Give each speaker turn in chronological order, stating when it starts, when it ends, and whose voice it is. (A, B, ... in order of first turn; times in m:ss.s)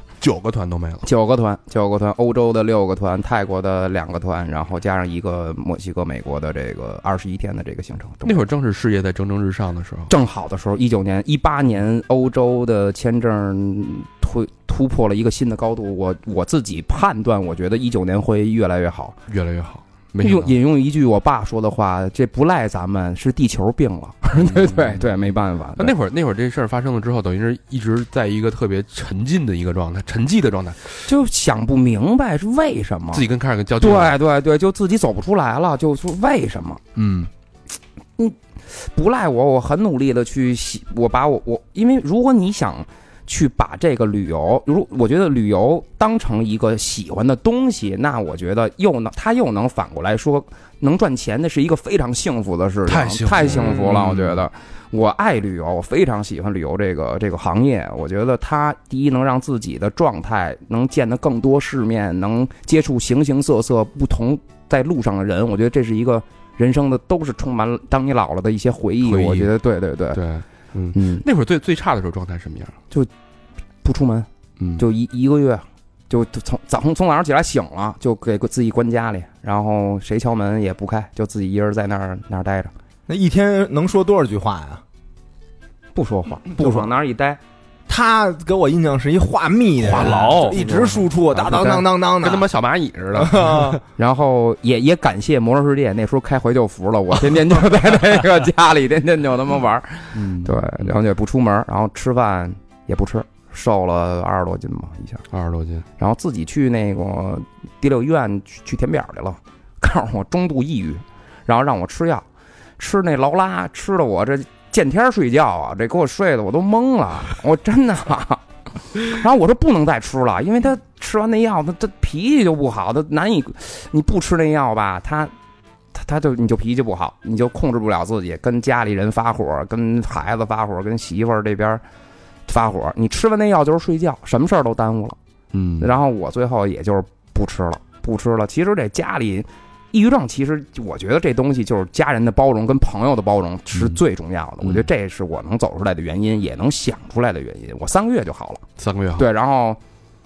0:00.2-0:01.1 A
0:01.0-0:08.4 B
0:08.2-0:10.1 A
0:10.1-0:19.2 B
0:19.3-0:20.5 A
0:20.2-0:25.9 B
0:24.4-0:25.1 A
0:25.8-0:31.0 A
0:31.1-0:33.2 B
0:33.1-0:34.2 A
0:33.8-0:36.8 B
0:37.0-0:37.3 A
0:38.2-1:10.2 B
0:52.9-0:54.4 A
1:09.0-1:09.5 A
1:10.1-1:12.8 A
1:10.9-1:11.2 B
1:13.8-1:22.7 B
1:23.1-1:24.8 C
1:26.0-1:27.4 B
1:27.9-1:32.5 C
1:29.8-1:33.8 A
1:31.4-1:31.9 B
1:33.2-1:33.8 C
1:34.0-1:45.2 B
1:40.1-1:40.9 A
1:45.3-1:45.8 A
1:46.0-1:52.2 B
1:52.8-1:58.4 B
1:59.0-2:05.3 B
2:05.9-2:11.8 B
2:12.5-2:15.2 B
2:15.5-2:15.9 A
2:15.8-2:28.6 B
2:24.6-2:24.9 A
2:28.8-2:29.2 A
2:29.2-2:29.8 B